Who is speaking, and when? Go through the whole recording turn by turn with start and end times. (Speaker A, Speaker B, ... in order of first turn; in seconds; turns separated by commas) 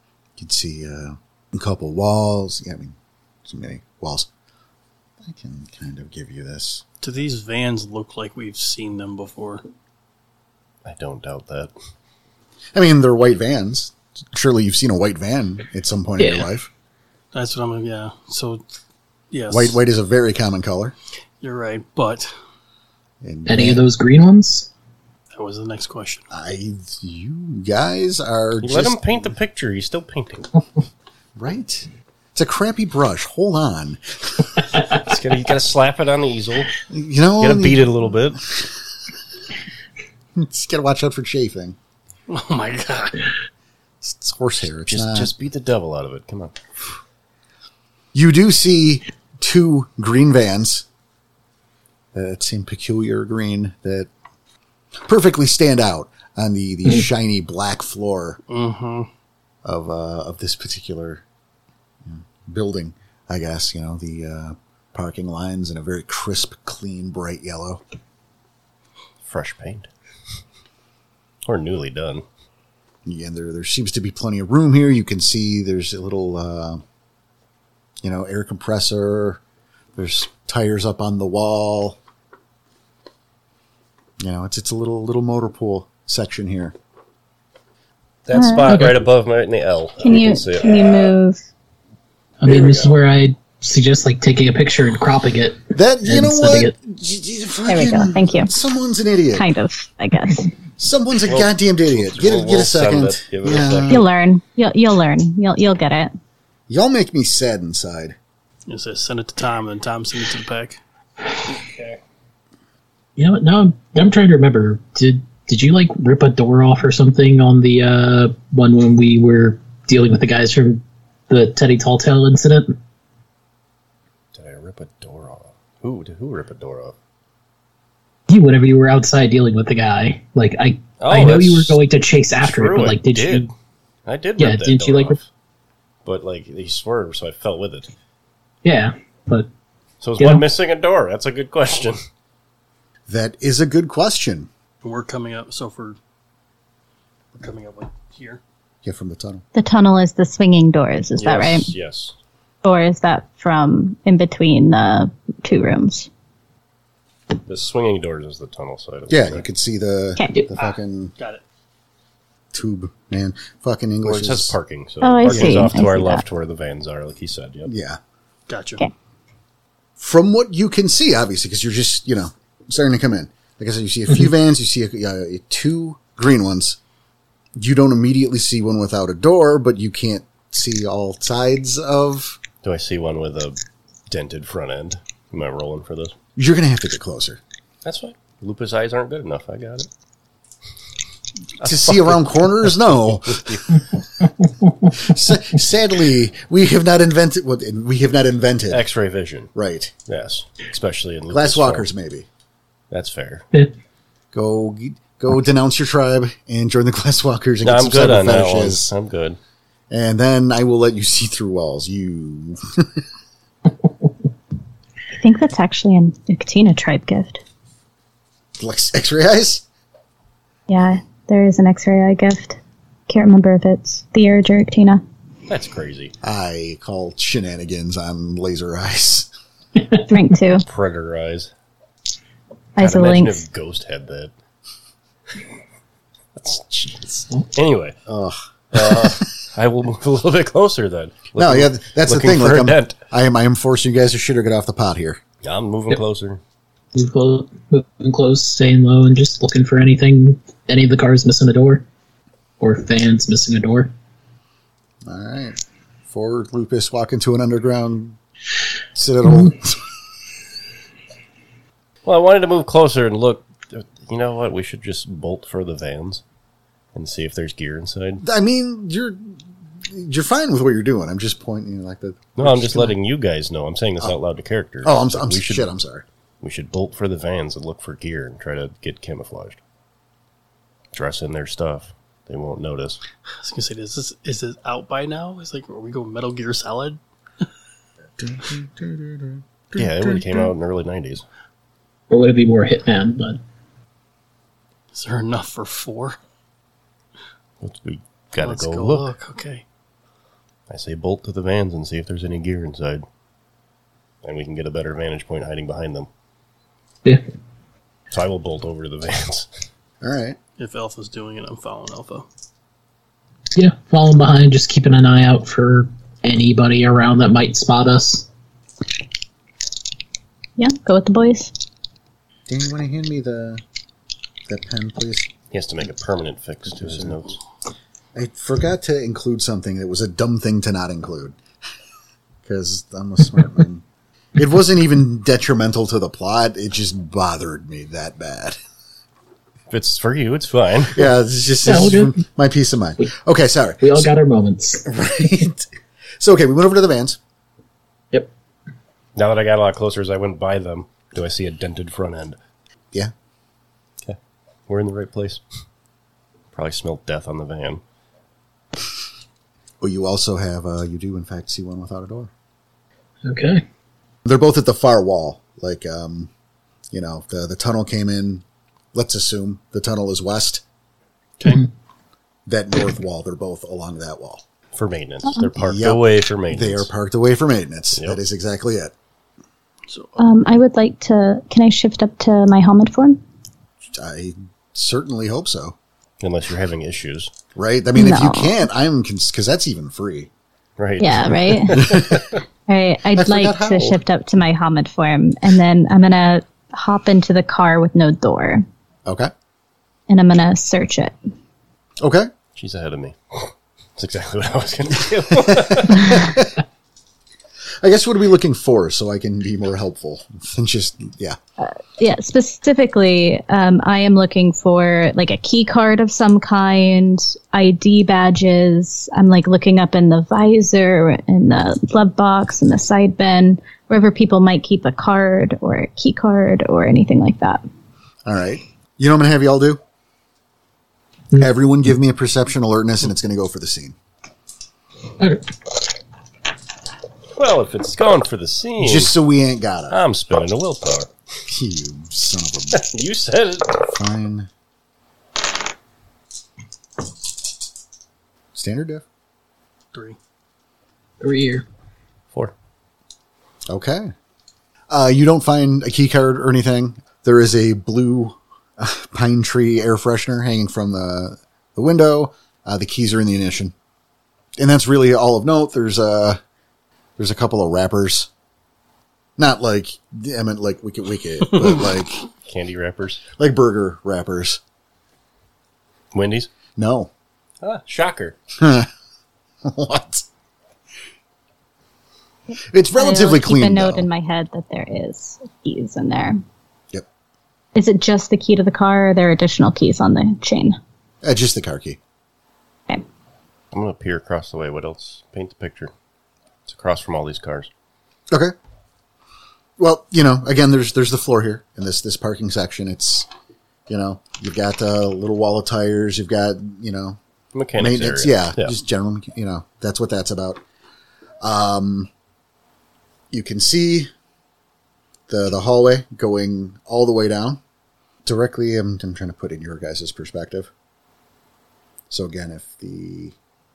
Speaker A: 0.4-4.3, Speaker A: 5.2-6.8, Speaker B: 7.0-9.6, Speaker C: 10.8-11.7, Speaker A: 12.7-16.7, Speaker D: 16.2-16.5, Speaker B: 17.3-18.6, Speaker B: 19.3-19.8, Speaker A: 19.5-20.9, Speaker B: 21.4-22.3, Speaker A: 23.2-23.9, Speaker D: 23.5-24.7, Speaker B: 25.3-26.3, Speaker A: 26.3-29.2, Speaker C: 28.6-30.6, Speaker A: 31.4-34.7, Speaker C: 35.0-36.8, Speaker A: 36.9-37.9, Speaker C: 37.4-38.4, Speaker A: 40.4-41.8, Speaker B: 42.3-43.3, Speaker A: 44.0-45.3, Speaker C: 44.9-46.6, Speaker A: 48.1-50.9, Speaker A: 52.1-54.1, Speaker A: 55.0-58.4, Speaker B: 58.5-59.1, Speaker A: 59.6-61.2, Speaker A: 62.0-67.8, Speaker C: 69.2-69.9, Speaker C: 71.5-72.2, Speaker A: 73.0-76.8, Speaker A: 78.0-79.4, Speaker A: 80.0-82.0, Speaker A: 84.2-86.7, Speaker C: 88.3-91.0, Speaker E: 88.3-88.8, Speaker D: 88.7-89.0, Speaker E: 90.0-91.5, Speaker D: 92.4-96.7, Speaker A: 95.7-99.5, Speaker E: 97.7-98.5, Speaker E: 99.3-100.5, Speaker A: 100.8-104.1, Speaker C: 101.3-104.0, Speaker E: 103.9-106.1, Speaker A: 106.7-108.2, Speaker B: 108.7-110.8, Speaker C: 111.5-112.0, Speaker D: 113.2-122.8, Speaker C: 124.3-127.0, Speaker D: 128.3-133.5, Speaker C: 131.0-131.8, Speaker C: 132.4-133.5, Speaker C: 134.1-135.2, Speaker D: 134.4-135.2, Speaker C: 136.1-137.9, Speaker D: 138.6-139.5, Speaker C: 140.0-142.0, Speaker D: 140.2-140.4, Speaker A: 143.1-144.5, Speaker B: 144.8-146.0, Speaker B: 147.4-148.4, Speaker A: 148.8-149.4, Speaker E: 149.5-151.7, Speaker C: 151.2-152.2, Speaker E: 152.6-156.1, Speaker C: 157.5-159.4, Speaker A: 159.1-161.1, Speaker B: 160.6-161.4, Speaker A: 162.5-164.6, Speaker C: 164.0-167.7, Speaker E: 165.0-166.2, Speaker A: 165.3-165.7, Speaker A: 167.7-168.0, Speaker B: 168.5-168.8, Speaker A: 170.0-176.8, Speaker A: 177.6-182.4, Speaker C: 182.6-183.6, Speaker C: 184.1-186.2, Speaker A: 186.4-187.4, Speaker C: 187.8-189.9, Speaker C: 191.6-193.8, Speaker A: 191.6-193.8, Speaker A: 194.9-198.8, Speaker C: 198.7-199.5, Speaker A: 199.6-199.9, Speaker C: 200.1-201.9, Speaker A: 201.3-202.3, Speaker C: 202.9-203.5, Speaker A: 204.3-208.9, Speaker C: 207.6-209.4, Speaker A: 209.9-213.0, Speaker E: 215.1-217.4, Speaker A: 218.6-219.6, Speaker E: 220.7-225.0, Speaker C: 225.5-226.1, Speaker A: 226.2-229.3, Speaker E: 230.1-230.7, Speaker C: 230.7-231.5, Speaker E: 232.8-233.4, Speaker C: 232.8-234.3, Speaker C: 236.4-238.0, Speaker A: 238.1-239.3, Speaker C: 238.7-243.0, Speaker A: 241.4-245.2, Speaker C: 245.4-246.4, Speaker D: 246.9-251.8, Speaker D: 252.6-253.9, Speaker A: 255.1-255.6, Speaker A: 256.1-258.2, Speaker A: 258.9-259.9, Speaker C: 262.1-266.2, Speaker C: 266.9-268.2, Speaker A: 268.2-273.0, Speaker C: 272.4-275.7, Speaker A: 274.8-276.1, Speaker C: 276.4-279.6, Speaker C: 280.9-283.0, Speaker B: 283.4-287.0, Speaker A: 288.2-290.3, Speaker C: 289.8-291.2, Speaker D: 292.1-293.4, Speaker B: 294.9-296.2, Speaker C: 297.6-299.1, Speaker B: 298.4-299.6, Speaker C: 300.7-303.0, Speaker C: 304.2-306.1, Speaker C: 308.1-309.5, Speaker A: 310.0-310.4, Speaker B: 310.6-312.3, Speaker D: 313.6-318.3, Speaker E: 320.6-321.5, Speaker A: 322.5-323.6, Speaker A: 324.5-325.3, Speaker C: 325.5-327.4, Speaker A: 326.8-327.1, Speaker A: 328.1-331.4, Speaker A: 332.4-333.8, Speaker A: 334.4-338.6, Speaker C: 339.7-341.1, Speaker A: 340.9-344.1, Speaker D: 341.6-342.2, Speaker D: 343.8-344.9, Speaker A: 344.9-345.7, Speaker A: 346.2-347.2, Speaker C: 349.2-352.4, Speaker C: 354.7-355.4, Speaker C: 356.5-357.8, Speaker A: 359.8-362.3, Speaker D: 363.2-363.6, Speaker A: 364.2-366.3, Speaker A: 366.9-368.4, Speaker A: 368.9-370.6, Speaker B: 371.4-371.7, Speaker A: 372.5-374.4, Speaker C: 374.8-376.9, Speaker A: 375.4-378.9, Speaker B: 379.9-380.2, Speaker E: 380.2-383.2, Speaker A: 383.9-385.8, Speaker C: 386.2-387.3, Speaker A: 387.6-390.3, Speaker E: 387.9-388.6, Speaker C: 390.8-392.4, Speaker E: 391.0-392.0, Speaker A: 391.7-392.3, Speaker E: 392.7-398.6, Speaker A: 393.1-394.0, Speaker A: 399.1-399.3, Speaker E: 400.1-401.1, Speaker A: 402.0-402.3, Speaker C: 402.6-406.4, Speaker A: 405.3-406.6, Speaker A: 407.8-411.4, Speaker E: 411.6-427.6, Speaker A: 428.2-429.8, Speaker A: 431.4-433.9, Speaker C: 437.4-439.1, Speaker A: 438.8-440.0, Speaker C: 439.9-441.1, Speaker A: 441.5-442.8, Speaker C: 442.7-443.8, Speaker A: 443.9-444.5, Speaker A: 448.6-449.0, Speaker D: 451.2-451.7, Speaker A: 453.7-454.1, Speaker A: 454.9-463.7, Speaker A: 464.6-466.4, Speaker A: 467.2-468.3, Speaker A: 469.4-472.2, Speaker C: 472.5-473.2, Speaker A: 473.4-474.6, Speaker C: 476.1-476.5, Speaker A: 476.8-477.1, Speaker C: 477.6-478.4, Speaker A: 478.6-478.9, Speaker A: 479.6-480.2, Speaker A: 482.7-484.1, Speaker E: 483.0-486.4, Speaker E: 487.8-490.8, Speaker A: 491.2-492.0, Speaker C: 493.7-495.9, Speaker C: 496.7-497.7, Speaker A: 499.8-503.3, Speaker A: 503.9-507.2, Speaker C: 507.5-508.7, Speaker A: 507.8-510.6, Speaker A: 511.4-512.1, Speaker A: 513.3-514.1, Speaker A: 515.3-517.6, Speaker A: 518.2-520.7, Speaker A: 522.1-523.4